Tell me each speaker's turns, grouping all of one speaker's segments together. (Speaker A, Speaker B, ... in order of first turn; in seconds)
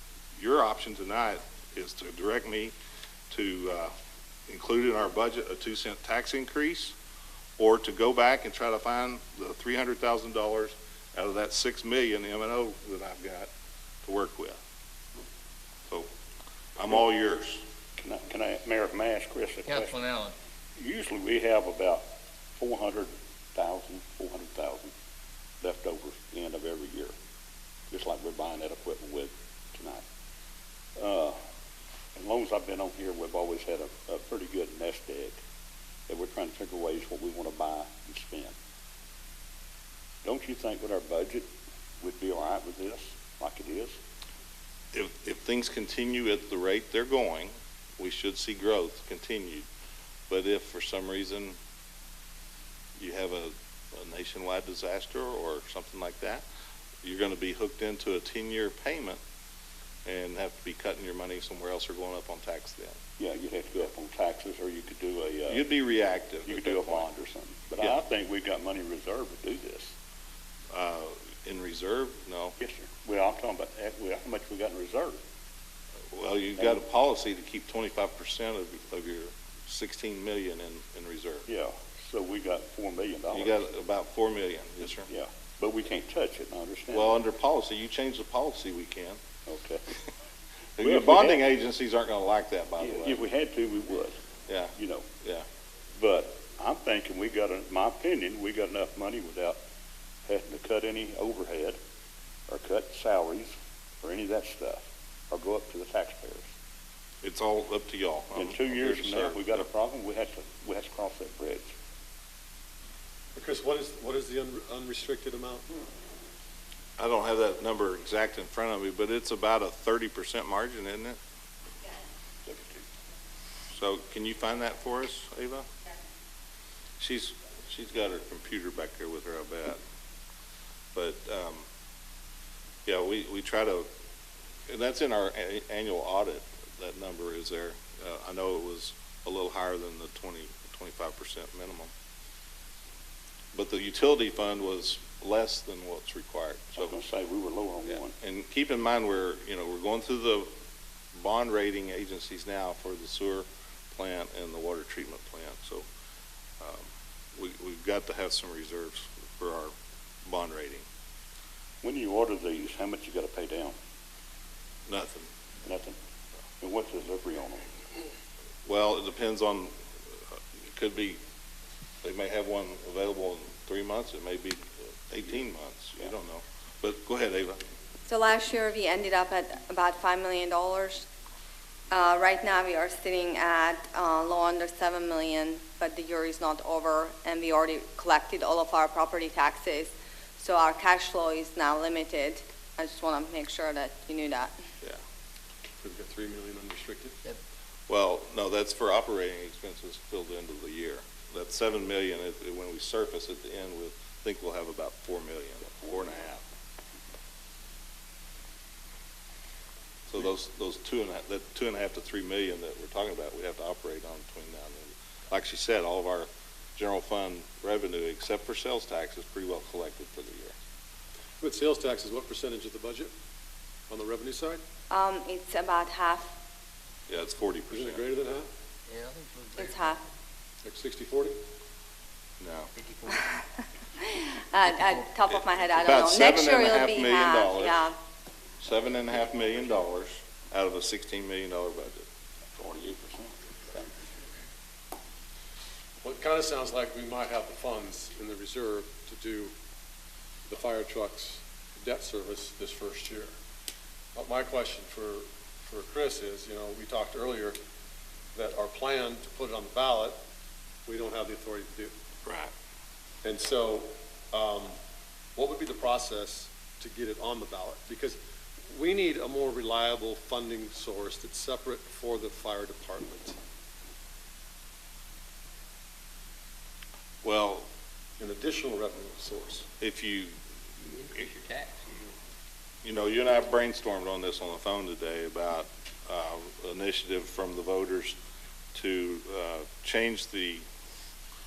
Speaker A: 0.3-2.7, 3.3-3.9, 4.5-6.9, 7.6-13.5, 14.0-14.6, 16.8-17.6, 44.9-49.7, 50.3-51.5, 53.0-56.4, 57.0-59.2, 60.0-63.0, 65.5-67.1, 70.7-72.5, 76.1-81.5, 83.3-85.1, 86.9-89.2, 90.8-93.2, 94.5-95.5, 107.2-109.6, 117.0-121.2, 123.7-125.7, 127.0-129.8, 130.9-131.7, 132.8-133.9, 134.7-141.9, 143.5-147.0, 148.1-150.5, 151.1-155.8, 156.6-159.7, 160.2-160.8, 164.9-165.3, 168.7-169.7, 170.7-171.2, 172.0-177.6, 197.9-206.4, 210.1-220.5, 227.1-228.0, 232.4-232.7, 235.3-237.8, 238.6-242.1, 262.2-262.5, 277.2-277.7, 279.8-280.3, 282.8-288.2, 288.7-290.6
Speaker B: 18.0-20.0, 20.8-22.0, 22.6-24.9, 25.6-27.1, 27.9-30.0, 30.9-31.4, 32.1-35.4, 36.1-38.5, 40.2-41.5, 42.0-44.0, 63.2-65.7, 66.4-69.9, 72.6-75.2, 81.5-83.6, 85.1-87.2, 89.5-89.8, 90.8-91.4, 92.8-94.2, 94.7-95.1, 96.0-99.6, 100.2-101.8, 102.5-106.4, 108.3-111.7, 122.5-122.8, 146.8-148.1, 161.8-163.7, 165.6-165.9, 166.6-167.6, 242.5-243.9
Speaker C: 19.6-20.3, 228.9-230.0, 232.7-233.3, 234.7-234.9, 280.9-282.1
Speaker D: 113.3-115.7, 195.8-197.2, 221.4-223.1, 223.9-224.6, 227.7-228.5, 230.6-231.4, 246.0-249.5, 250.5-253.3, 254.1-257.6, 258.3-260.1, 260.9-261.9, 263.2-264.8, 265.4-268.2, 268.7-273.4, 278.2-279.6
Speaker E: 178.1-181.0, 181.9-194.6, 224.9-226.3, 229.6-230.0, 234.1-237.9